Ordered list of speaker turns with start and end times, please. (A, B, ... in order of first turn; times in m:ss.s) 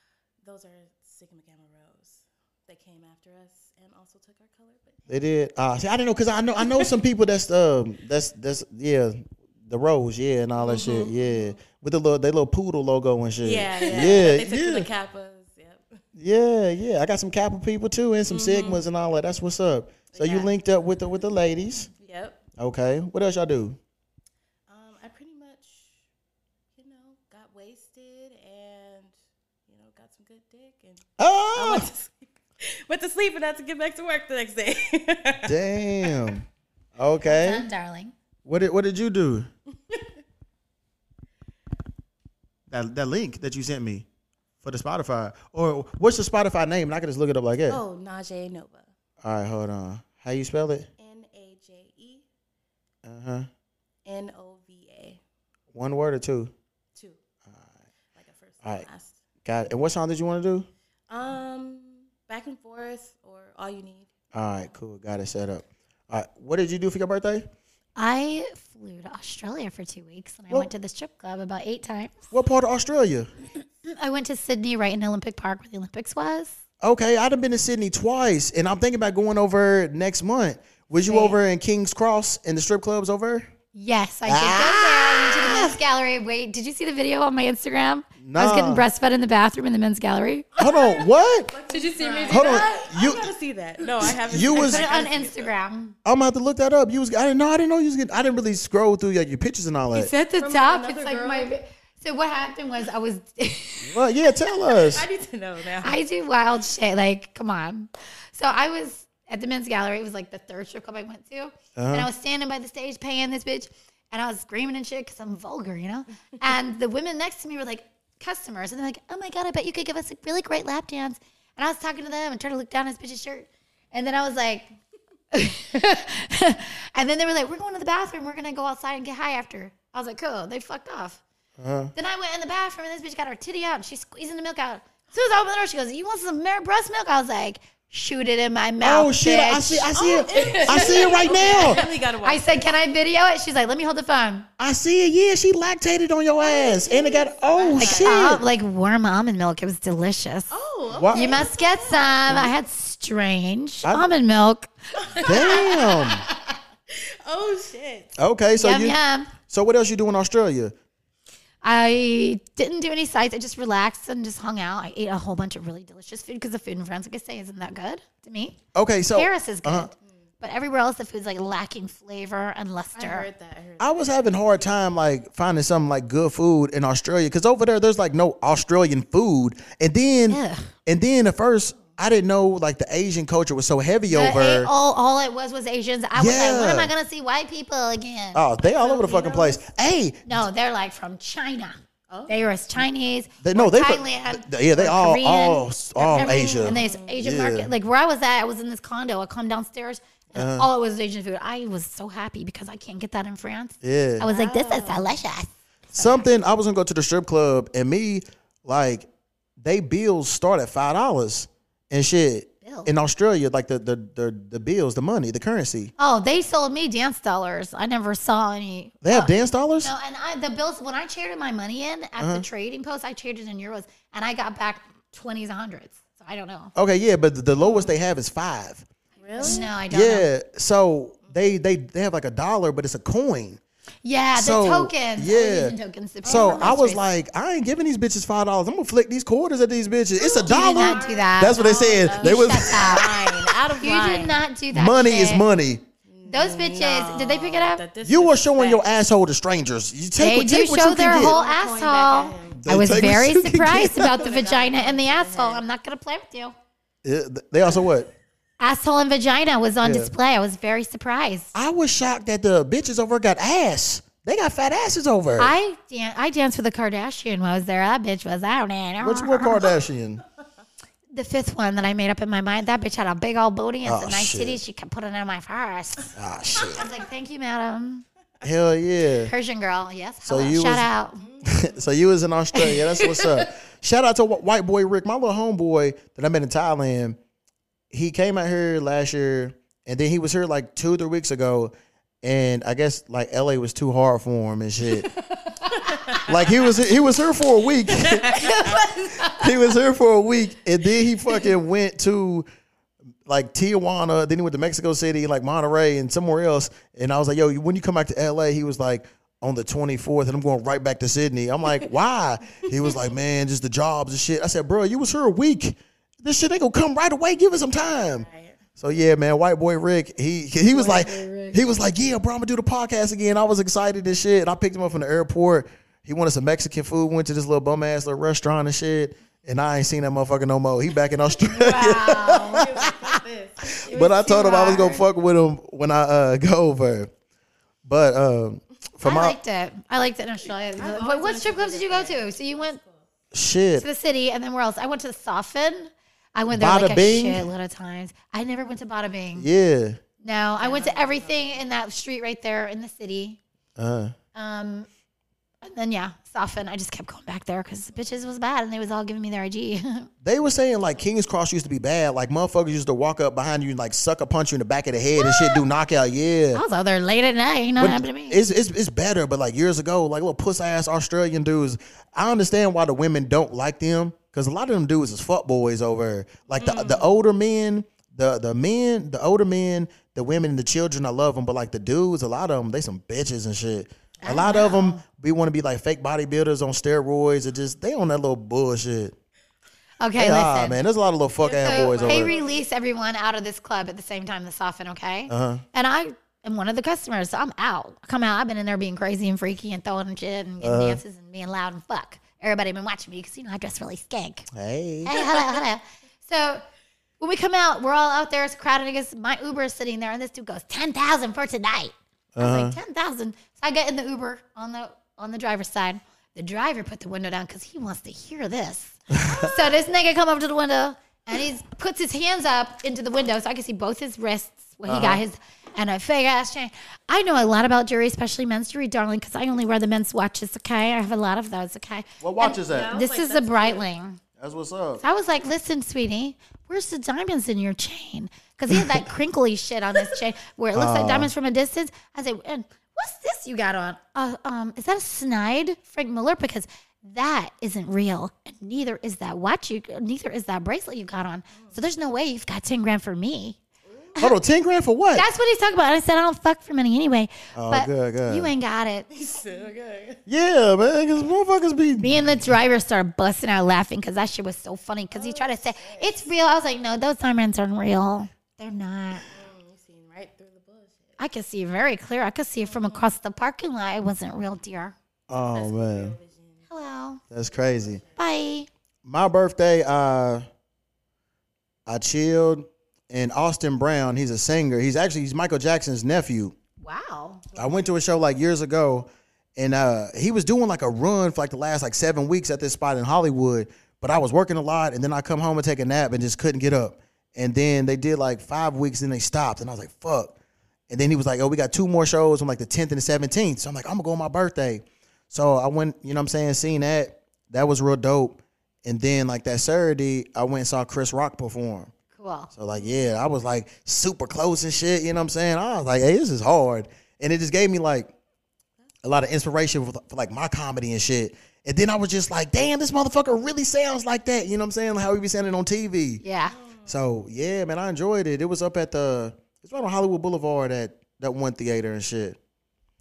0:00.4-0:05.2 A
0:05.1-0:14.9 B
0:06.6-0:06.9 A
0:10.6-0:11.6 A
0:13.4-0:16.0 A
0:16.2-0:21.9 B
0:18.3-0:18.8 A
0:20.1-0:20.5 A
0:22.0-0:22.4 A
0:22.6-0:23.8 B
0:24.7-0:26.0 A
0:26.7-0:29.1 A
0:29.7-0:36.4 A
0:31.2-0:31.9 B
0:35.4-0:36.4 B
0:37.0-0:37.7 B
0:37.2-0:38.1 C
0:38.4-0:39.5 B
0:42.7-0:44.1 B
0:44.6-0:47.8 B
0:47.7-0:48.9 A
0:49.2-0:50.9 B
0:51.0-0:52.2 A
0:53.0-0:53.5 B
0:54.1-0:55.2 A
0:55.7-0:56.5 B
0:57.0-0:57.2 A
0:58.2-0:59.2 A
0:59.4-1:00.7 B
1:01.1-1:04.1 A
1:04.3-1:07.5 B
1:08.0-1:12.2 C
1:12.3-1:13.3 B
1:13.8-1:16.6 C
1:16.8-1:23.5 B
1:21.1-1:21.4 C
1:23.8-1:30.5 C
1:24.3-1:25.8 B
1:28.2-1:28.9 B
1:30.6-1:31.5 B
1:30.6-1:35.5 A
1:31.7-1:32.9 C
1:32.3-1:33.3 B
1:34.0-1:34.8 B
1:34.5-1:36.0 C
1:36.0-1:40.1 B
1:39.9-1:44.0 C
1:40.4-1:41.5 A
1:43.8-1:45.0 B
1:44.8-1:46.0 A
1:45.8-2:04.7 C
1:51.8-1:52.1 B
2:05.3-2:11.2 C
2:11.6-2:11.9 B
2:12.0-2:24.5 C
2:18.8-2:21.8 B
2:20.0-2:22.7 A
2:24.6-2:28.4 B
2:26.4-2:28.4 A
2:27.8-2:30.5 C
2:30.5-2:32.5 A
2:30.9-2:31.5 B
2:31.1-2:35.4 C
2:33.8-2:34.1 B
2:35.0-2:38.1 A
2:35.2-2:36.3 B
2:38.2-2:39.0 B
2:38.6-2:39.3 C
2:39.5-2:40.7 B
2:41.6-2:48.6 C
2:48.7-2:49.9 B
2:49.1-2:53.3 C
2:53.0-2:54.7 A
2:53.8-3:04.7 B
3:00.3-3:00.7 C
3:01.7-3:02.0 A
3:04.1-3:08.4 C
3:06.2-3:06.9 B
3:08.3-3:10.5 B
3:08.6-3:09.6 A
3:10.3-3:11.8 C
3:12.1-3:12.8 A
3:12.3-3:26.2 C
3:13.4-3:17.7 B
3:16.0-3:17.2 A
3:20.3-3:20.7 B
3:23.8-3:24.3 B
3:24.3-3:25.2 A
3:25.9-3:29.1 B
3:29.6-3:35.9 B
3:32.6-3:32.9 C
3:36.0-3:46.7 C
3:39.0-3:39.9 B
3:42.2-3:42.4 B
3:46.8-3:48.8 B
3:47.6-3:47.9 A
3:49.2-3:49.7 A
3:49.4-3:53.6 B
3:49.4-3:50.3 C
3:54.0-3:57.0 C
3:54.4-4:03.4 B
3:56.2-3:56.8 A
4:00.2-4:04.4 A
4:00.4-4:03.1 C
4:03.8-4:05.4 C
4:04.7-4:05.8 B
4:06.1-4:08.8 A
4:06.3-4:07.8 C
4:08.0-4:11.4 B
4:10.2-4:16.6 C
4:10.9-4:12.6 A
4:12.6-4:14.2 B
4:14.0-4:15.6 A
4:17.0-4:18.1 B
4:18.6-4:21.5 C
4:19.8-4:20.1 B
4:21.5-4:25.5 B
4:25.4-4:29.6 C
4:29.0-4:30.2 B
4:31.1-4:38.0 C
4:33.8-4:34.6 B
4:36.2-4:36.9 B
4:38.4-4:39.3 B
4:39.3-4:41.3 C
4:40.2-4:40.9 B
4:41.2-4:41.8 A
4:41.4-4:47.2 B
4:42.6-4:43.5 C
4:47.9-4:55.1 B
4:55.4-4:56.2 C
4:55.9-4:56.3 A
4:56.3-4:58.4 B
4:57.9-4:58.8 A
4:58.3-4:59.4 C
4:59.3-5:02.5 B
5:03.3-5:18.3 B
5:17.8-5:18.6 A
5:18.8-5:33.1 B
5:20.7-5:21.6 C
5:31.5-5:32.7 C
5:32.1-5:35.0 A
5:33.7-5:37.1 B
5:33.8-5:35.0 C
5:37.8-5:39.4 B
5:39.0-5:42.8 C
5:40.8-5:43.1 A
5:43.3-5:43.9 B
5:43.8-5:49.5 C
5:46.5-5:47.5 B
5:49.4-5:50.0 B
5:50.2-5:53.4 C
5:50.6-5:51.7 A
5:53.8-5:54.2 B
5:54.4-5:54.9 C
5:55.6-6:00.1 C
6:00.2-6:06.6 B
6:05.2-6:05.6 C
6:06.5-6:08.4 C
6:07.8-6:29.2 B
6:16.6-6:17.1 A
6:24.2-6:25.0 C
6:30.0-6:30.8 C
6:30.2-6:32.3 B
6:31.4-6:32.6 A
6:31.6-6:44.5 C
6:35.3-6:35.6 B
6:40.6-6:41.0 B
6:44.5-6:45.3 B
6:45.0-6:46.6 C
6:47.2-7:14.2 C
6:52.4-6:52.8 B
7:04.9-7:05.2 B
7:12.2-7:13.0 B
7:12.4-7:13.9 A
7:14.4-7:15.0 B
7:15.0-7:33.6 C
7:18.7-7:19.1 B
7:20.7-7:21.3 B
7:33.9-7:34.2 A
7:34.2-7:35.3 B
7:35.2-7:39.1 C
7:37.5-7:38.5 B
7:39.1-7:40.2 A
7:40.3-7:42.5 B
7:42.0-7:49.3 C
7:45.1-7:46.3 A
7:49.3-7:51.2 A
7:51.2-7:55.0 C
7:52.6-7:53.1 A
7:55.3-7:56.2 B
7:55.5-7:56.7 A
7:56.7-7:57.2 C
7:57.3-7:58.0 B
7:57.5-7:58.2 A
7:58.2-7:58.7 C
7:59.0-8:00.4 B
8:01.9-8:06.6 B
8:06.8-8:07.4 C
8:07.5-8:07.9 A
8:07.6-8:20.4 B
8:20.9-8:31.9 B
8:32.2-8:32.5 C
8:32.6-8:38.1 B
8:39.0-8:46.2 B
8:46.2-8:46.5 C
8:46.5-8:47.0 A
8:46.9-8:52.4 B